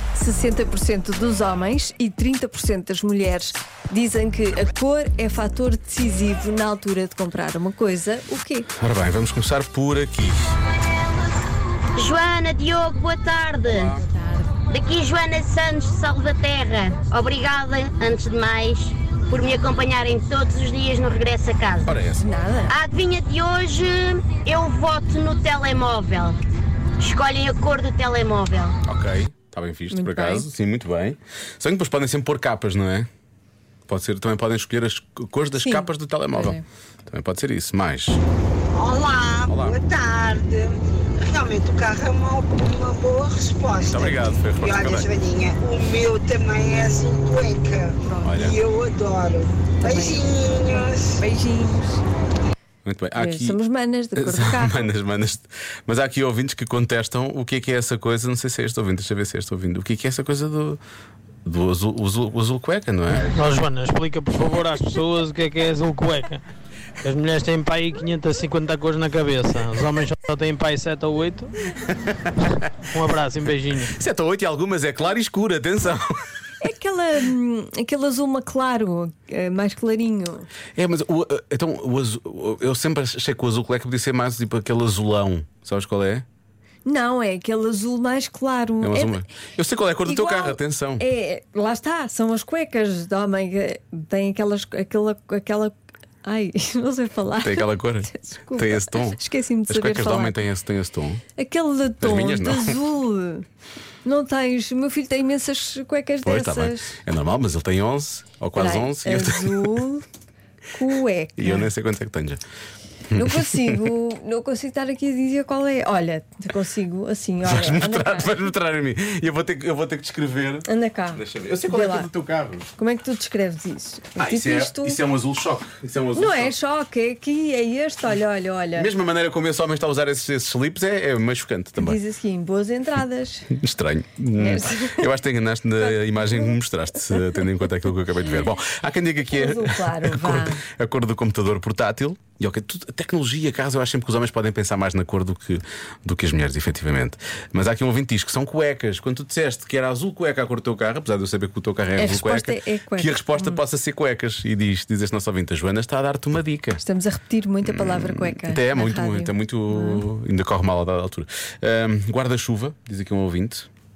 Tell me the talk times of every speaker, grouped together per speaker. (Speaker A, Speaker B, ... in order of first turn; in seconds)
Speaker A: 0.1-8.7, 13.9-14.5, 22.2-22.8, 29.9-30.5, 35.5-36.6, 48.0-48.4, 49.8-52.0, 53.2-54.9, 76.6-80.5, 86.8-89.2, 90.0-100.5, 101.4-103.5, 104.0-107.0, 108.6-110.0, 110.7-111.7, 113.2-118.5, 120.7-122.1, 122.8-125.0, 126.1-128.9, 131.8-133.5, 134.4-135.1, 135.8-136.6, 137.1-137.4, 139.3-140.6, 151.9-153.6, 156.8-160.0
Speaker B: 8.8-10.6, 13.7-14.0, 21.8-22.2, 28.8-33.1, 33.9-38.2, 39.5-39.8, 43.8-45.1, 48.2-48.6, 52.8-53.6, 54.1-60.8, 61.4-63.4, 71.9-72.2, 73.9-76.1, 80.8-86.2, 88.8-91.0, 97.4-101.2, 102.0-102.8, 106.2-109.8, 111.4-112.4, 113.1-113.8, 117.4-122.7, 124.2-126.5, 128.8-132.0, 133.5-156.8, 157.6-163.7
Speaker C: 11.9-13.9, 14.7-21.9, 22.7-26.4, 27.0-28.8
Speaker D: 38.7-51.1
Speaker E: 63.3-66.4, 67.0-71.5, 72.9-73.9